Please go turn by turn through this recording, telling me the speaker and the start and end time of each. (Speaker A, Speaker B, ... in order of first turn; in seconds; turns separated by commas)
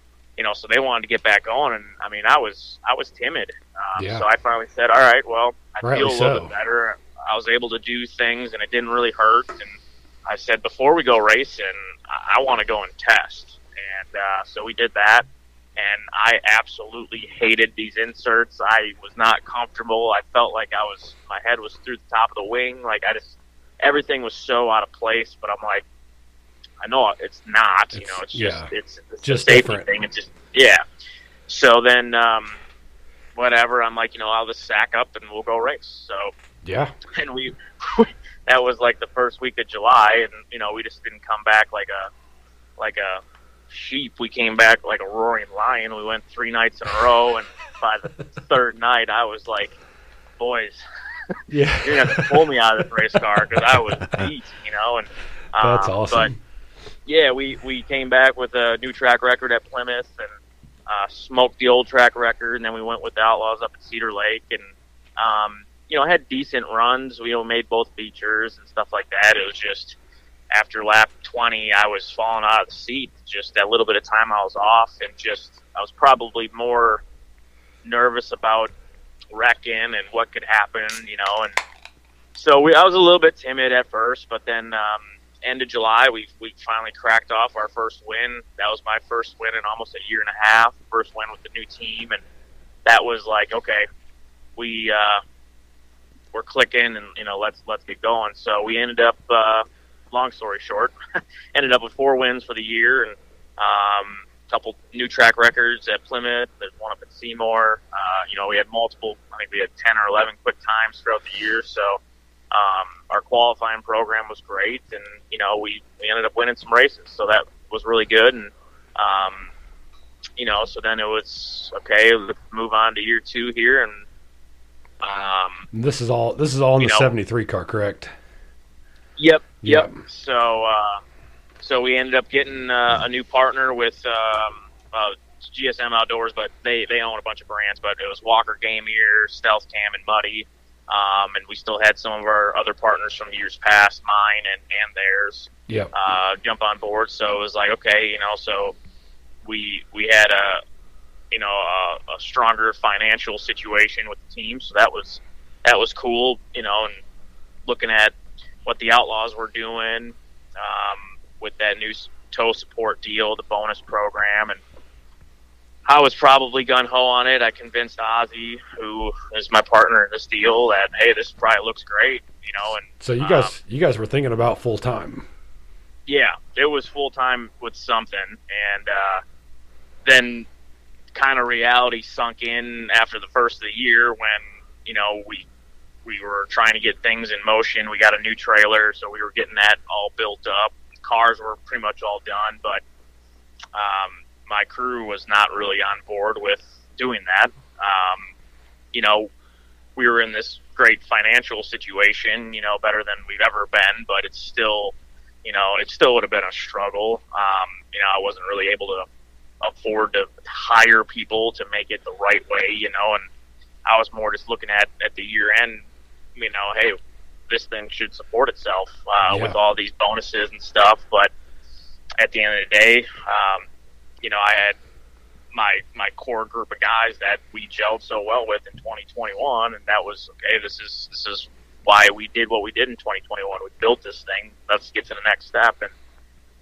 Speaker A: 0.4-25.8, Speaker B: 4.0-4.2, Speaker B: 5.8-6.5, Speaker A: 26.8-30.8, Speaker B: 27.9-28.7, Speaker B: 29.2-29.9, Speaker A: 31.5-32.6, Speaker A: 33.3-36.3, Speaker B: 36.6-36.9, Speaker A: 37.1-42.1, Speaker A: 42.8-49.8, Speaker A: 50.4-56.3, Speaker B: 51.5-52.4, Speaker B: 55.6-56.3, Speaker A: 57.0-60.3, Speaker A: 60.9-70.0, Speaker A: 70.5-77.0, Speaker A: 77.8-78.7, Speaker A: 79.3-81.5, Speaker A: 82.3-92.2, Speaker A: 92.8-93.8, Speaker A: 94.5-95.2, Speaker A: 96.3-100.9, Speaker A: 101.5-112.0, Speaker A: 112.5-119.5, Speaker A: 120.4-124.0, Speaker A: 125.0-125.6, Speaker B: 125.7-128.1, Speaker A: 126.8-127.1, Speaker A: 129.2-131.0, Speaker B: 129.6-130.0, Speaker A: 131.6-148.7, Speaker A: 149.4-150.6, Speaker A: 151.3-157.0, Speaker A: 157.7-164.6, Speaker A: 165.8-173.5, Speaker B: 173.0-175.3, Speaker A: 176.1-179.2, Speaker A: 180.0-180.5, Speaker A: 181.1-185.5, Speaker A: 186.0-192.8, Speaker A: 193.7-198.3, Speaker A: 198.9-199.3, Speaker A: 199.9-209.1, Speaker A: 209.6-213.3, Speaker A: 213.8-217.0, Speaker A: 217.5-221.3, Speaker B: 219.3-219.6, Speaker A: 222.2-223.7, Speaker A: 224.2-224.8, Speaker A: 225.5-235.9